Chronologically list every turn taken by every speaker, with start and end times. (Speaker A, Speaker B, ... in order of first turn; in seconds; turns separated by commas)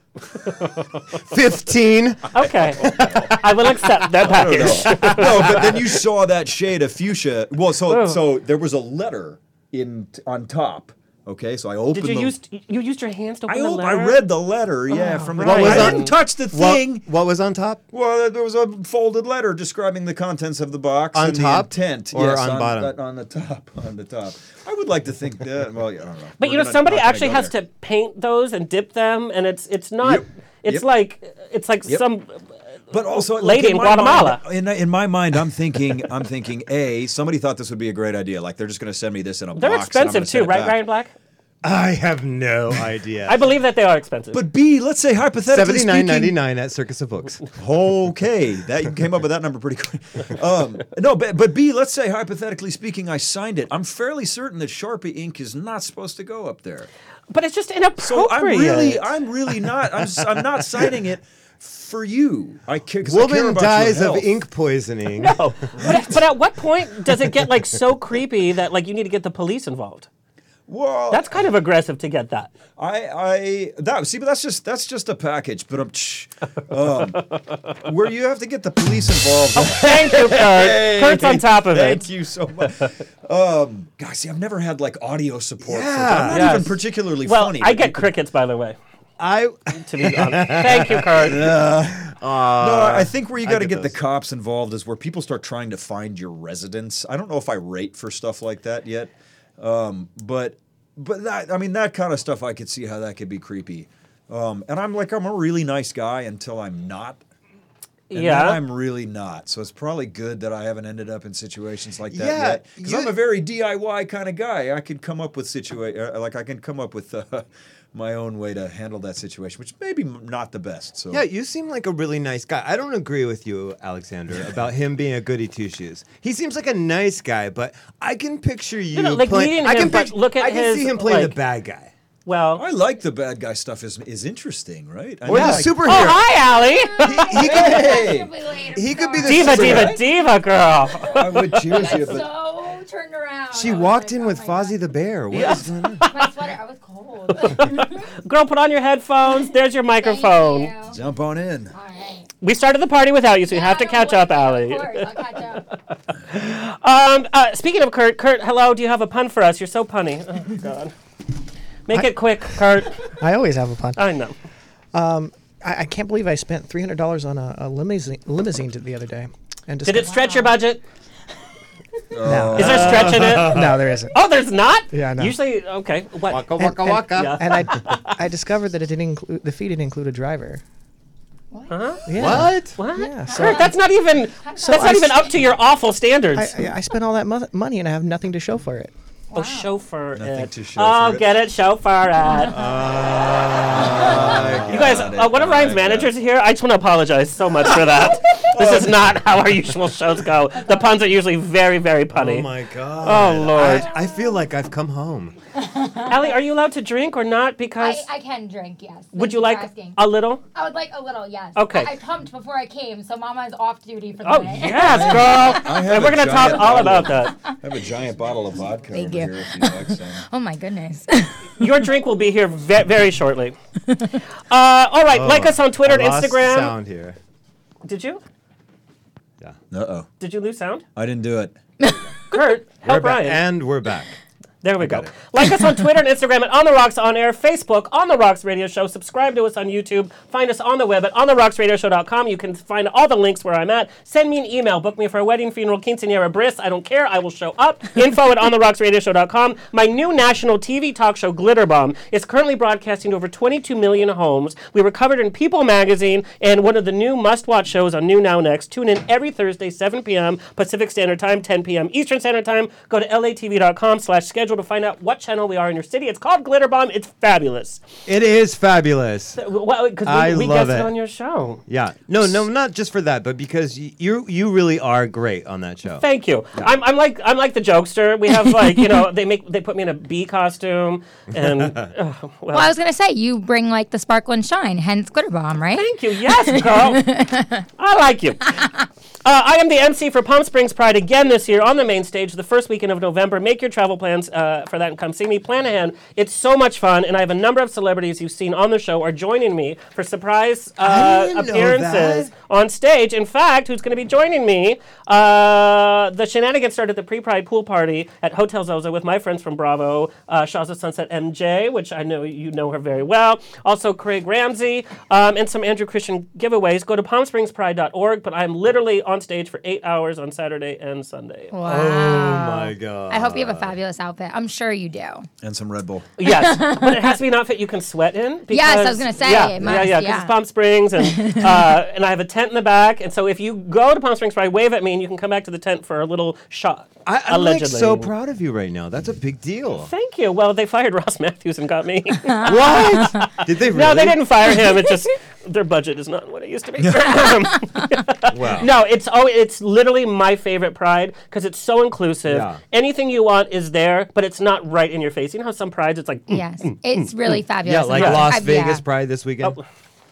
Speaker A: 0.4-1.1, Speaker B: 1.1-3.4, Speaker A: 2.3-5.7, Speaker C: 2.8-3.3, Speaker C: 4.2-12.3, Speaker B: 4.5-5.9, Speaker A: 7.9-8.2, Speaker A: 11.9-14.2, Speaker C: 13.5-17.0, Speaker A: 14.9-16.1, Speaker B: 15.4-17.8, Speaker C: 17.9-27.5, Speaker B: 21.1-22.9, Speaker A: 26.4-32.4, Speaker C: 30.0-30.9, Speaker C: 32.9-40.8, Speaker A: 33.1-34.4, Speaker A: 39.5-41.1, Speaker B: 41.6-43.4, Speaker A: 43.3-44.4, Speaker C: 44.3-46.4, Speaker B: 45.5-47.5, Speaker C: 47.6-56.9, Speaker A: 57.3-59.1, Speaker C: 58.0-64.4, Speaker B: 63.0-65.9, Speaker A: 65.2-70.1, Speaker C: 65.8-66.1, Speaker C: 70.7-71.5, Speaker A: 71.1-72.5, Speaker C: 72.8-88.1, Speaker A: 79.5-82.0, Speaker B: 85.6-86.7, Speaker A: 86.3-88.8, Speaker B: 89.2-93.9, Speaker A: 89.8-91.4, Speaker C: 91.2-107.2, Speaker A: 108.1-108.6, Speaker C: 108.1-121.2, Speaker B: 112.1-113.1, Speaker B: 121.1-131.9, Speaker A: 128.9-131.3, Speaker A: 132.2-132.6, Speaker C: 132.6-136.1, Speaker B: 135.2-136.2, Speaker A: 135.3-137.3, Speaker D: 136.4-139.8, Speaker B: 137.0-138.1, Speaker C: 137.3-138.3, Speaker B: 138.7-140.0, Speaker A: 139.2-141.8, Speaker C: 139.4-140.0, Speaker D: 141.0-144.8, Speaker C: 141.1-142.3, Speaker B: 143.5-146.1, Speaker A: 145.3-146.3, Speaker D: 145.3-148.1, Speaker A: 147.3-150.7, Speaker D: 149.2-151.0, Speaker C: 150.9-151.7, Speaker D: 151.7-152.3, Speaker A: 152.4-155.2, Speaker D: 153.5-155.7, Speaker A: 156.3-160.9, Speaker A: 161.9-163.1, Speaker E: 163.2-164.0, Speaker A: 163.9-164.3, Speaker E: 164.9-170.2, Speaker A: 169.8-170.8, Speaker D: 170.1-170.5, Speaker C: 172.1-173.5, Speaker E: 172.2-174.2, Speaker B: 172.5-173.7, Speaker A: 172.6-173.6, Speaker A: 174.1-176.5, Speaker E: 174.9-175.4, Speaker B: 176.3-177.4, Speaker E: 176.6-180.6, Speaker A: 177.1-178.1, Speaker D: 181.5-182.3, Speaker A: 181.7-186.5, Speaker E: 182.1-183.7, Speaker B: 182.2-182.8, Speaker D: 183.2-183.8, Speaker D: 184.4-185.4, Speaker E: 184.7-185.1, Speaker E: 186.3-188.9, Speaker D: 189.3-189.7, Speaker A: 189.3-192.5, Speaker C: 190.1-191.4, Speaker D: 192.3-192.7, Speaker B: 192.5-195.0, Speaker C: 193.7-196.1, Speaker A: 194.7-202.5, Speaker C: 198.3-199.2, Speaker D: 200.6-200.9, Speaker B: 202.1-205.4, Speaker A: 203.0-203.9, Speaker D: 203.6-204.4, Speaker D: 205.6-206.4, Speaker A: 206.1-208.1, Speaker D: 207.8-210.0, Speaker A: 209.1-210.4, Speaker D: 210.5-215.7, Speaker A: 211.5-211.9, Speaker A: 214.2-217.3, Speaker C: 214.7-220.2, Speaker D: 218.9-221.5, Speaker A: 221.6-223.6, Speaker A: 224.5-226.7, Speaker B: 225.1-227.2, Speaker A: 227.8-228.2, Speaker C: 229.7-230.1, Speaker A: 230.2-230.8, Speaker C: 230.9-231.6, Speaker A: 232.3-233.4, Speaker B: 232.8-234.1, Speaker A: 234.6-267.8, Speaker B: 234.8-235.1, Speaker B: 268.1-269.4, Speaker A: 269.4-271.6, Speaker B: 270.0-270.9, Speaker B: 271.7-276.0, Speaker A: 276.0-282.7, Speaker D: 282.5-287.6, Speaker A: 285.7-287.1, Speaker A: 287.8-288.6, Speaker A: 289.2-321.5, Speaker B: 300.8-302.3, Speaker D: 321.5-325.3, Speaker B: 321.6-323.8, Speaker C: 325.4-326.1, Speaker A: 326.2-338.1, Speaker D: 326.2-327.2, Speaker D: 328.5-330.4, Speaker D: 331.0-331.8, Speaker B: 337.0-339.9, Speaker A: 339.7-357.1, Speaker B: 342.4-344.6, Speaker C: 346.8-347.2, Speaker B: 348.3-348.7, Speaker B: 352.3-352.6, Speaker D: 356.3-358.8, Speaker B: 357.6-359.6, Speaker A: 357.9-358.3